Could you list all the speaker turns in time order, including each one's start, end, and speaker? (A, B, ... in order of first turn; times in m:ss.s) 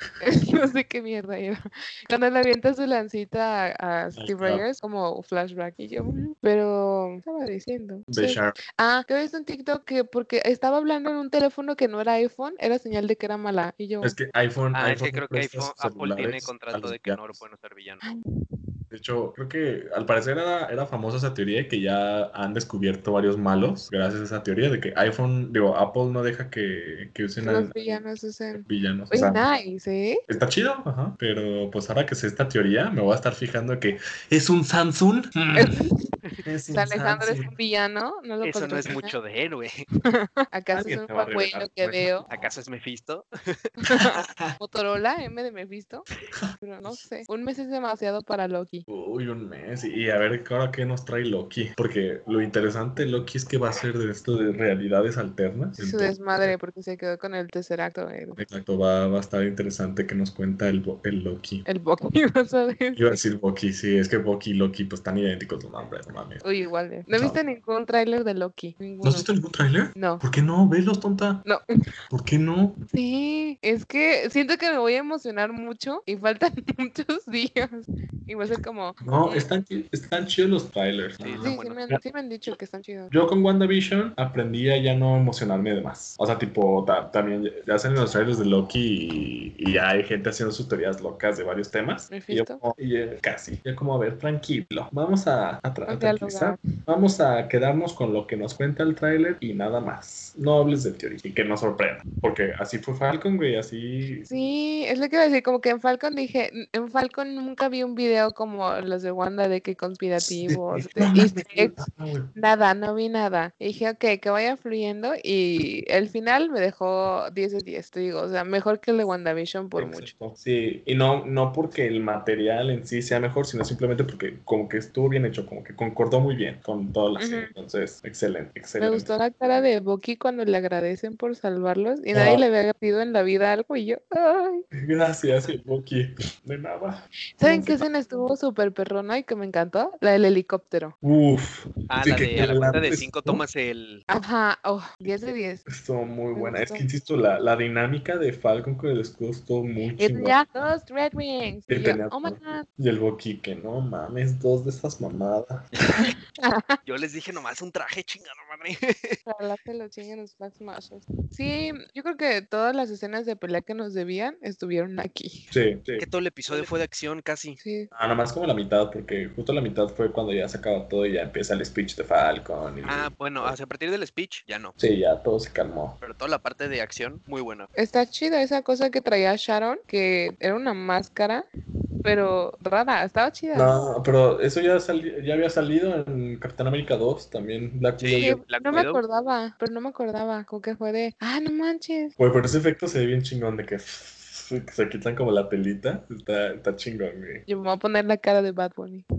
0:00.2-0:14.1 A
0:04.1-0:04.6 B
0:08.1-0:08.6 B
0:14.0-0:17.4 B
0:14.7-0:18.0 C
0:18.9-0:27.7 B
0:27.4-0:30.2 A
0:28.6-0:29.4 B
0:30.3-0:35.8 B
0:35.5-0:35.9 A
0:36.4-0:37.5 B
0:36.7-0:39.2 A
0:38.4-0:39.8 C
0:40.1-0:42.3 A
0:40.7-0:42.5 B
0:42.3-0:43.3 C
0:43.8-0:46.0 A
0:46.4-0:47.0 B
0:46.6-0:48.8 A
0:48.9-0:56.5 B
0:55.8-0:58.4 A
0:58.4-1:01.6 B
1:01.6-1:03.2 A
1:02.9-1:06.4 B
1:06.4-1:09.3 A
1:07.1-1:07.4 B
1:09.0-1:11.4 B
1:09.9-1:10.2 A
1:12.1-1:12.8 B
1:12.9-1:19.5 A
1:19.0-1:22.0 B
1:21.2-1:21.8 C
1:21.4-1:23.1 A
1:23.1-1:44.3 B
1:32.1-1:32.6 A
1:35.9-1:36.6 A
1:44.3-1:51.8 A
1:50.2-1:52.3 B
1:52.3-2:00.1 A
1:59.8-2:09.1 B
2:07.2-2:07.5 A
2:08.8-2:14.6 A
2:12.1-2:12.4 B
2:14.7-2:17.8 B
2:17.4-2:20.9 A
2:21.0-2:23.4 B
2:21.9-2:24.0 C
2:24.1-2:25.6 A
2:25.7-2:30.7 B
2:26.3-2:26.8 A
2:30.0-2:32.6 A
2:31.7-2:36.1 B
2:36.0-2:36.8 A
2:36.8-2:39.2 C
2:39.2-2:45.5 A
2:45.5-2:46.7 B
2:46.0-2:47.6 C
2:47.6-2:47.9 A
2:47.9-2:53.6 B
2:52.8-2:54.7 C
2:54.8-2:56.0 B
2:56.0-2:57.7 C
2:57.7-3:01.4 A
3:02.0-3:03.8 A
3:03.5-3:08.8 B
3:08.0-3:09.0 C
3:08.2-3:12.1 A
3:12.2-3:17.4 B
3:17.5-3:19.0 A